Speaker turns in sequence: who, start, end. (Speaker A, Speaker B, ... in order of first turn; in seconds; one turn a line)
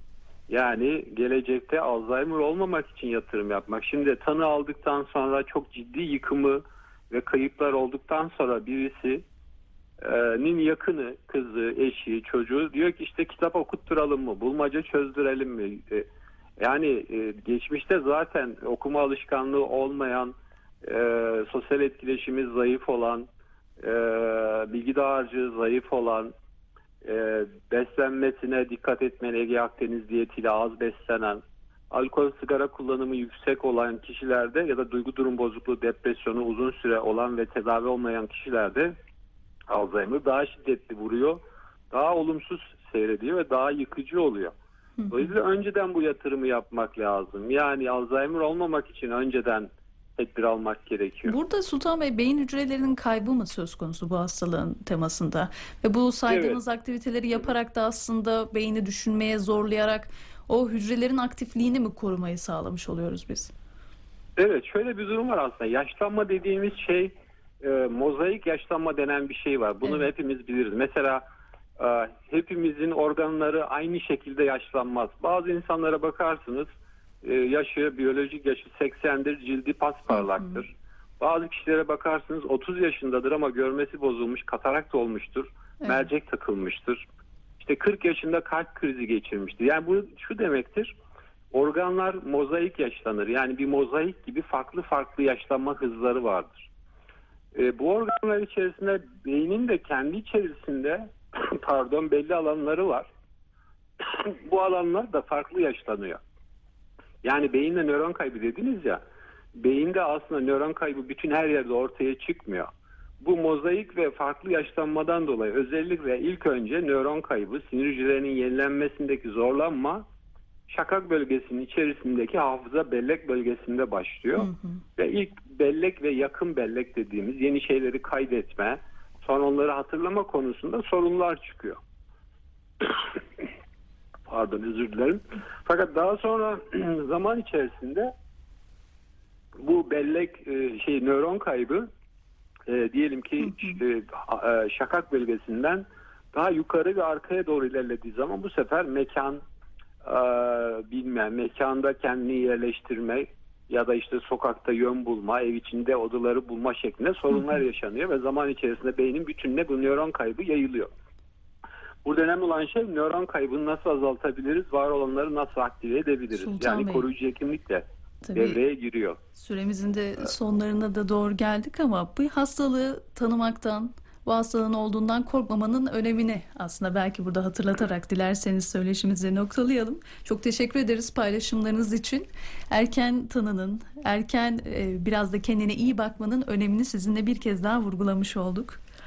Speaker A: 0.5-9.2
Speaker A: 10.0-16.1
Speaker A: 16.6-23.3
Speaker A: 23.8-26.3
Speaker A: 27.0-38.9
Speaker A: 39.7-44.5
Speaker B: 45.0-45.4
Speaker A: 45.1-51.4
Speaker B: 51.2-63.5
Speaker A: 56.3-56.6
Speaker A: 64.4-71.2
Speaker A: 71.8-76.7
Speaker A: 77.2-87.0
Speaker B: 80.1-80.6
Speaker A: 87.6-90.9
Speaker A: 91.5-96.7
Speaker A: 97.5-103.1
Speaker A: 104.0-106.2
Speaker A: 107.2-109.0
Speaker A: 109.6-112.7
Speaker A: 113.2-120.0
Speaker A: 120.7-131.8
Speaker B: 124.4-124.8
Speaker A: 132.8-133.2
Speaker A: 134.3-138.1
Speaker A: 139.6-141.9
Speaker A: 142.7-149.4
Speaker B: 143.4-143.8
Speaker A: 150.0-160.9
Speaker A: 162.0-169.2
Speaker B: 166.3-167.1
Speaker B: 168.2-168.6
Speaker B: 169.3-188.8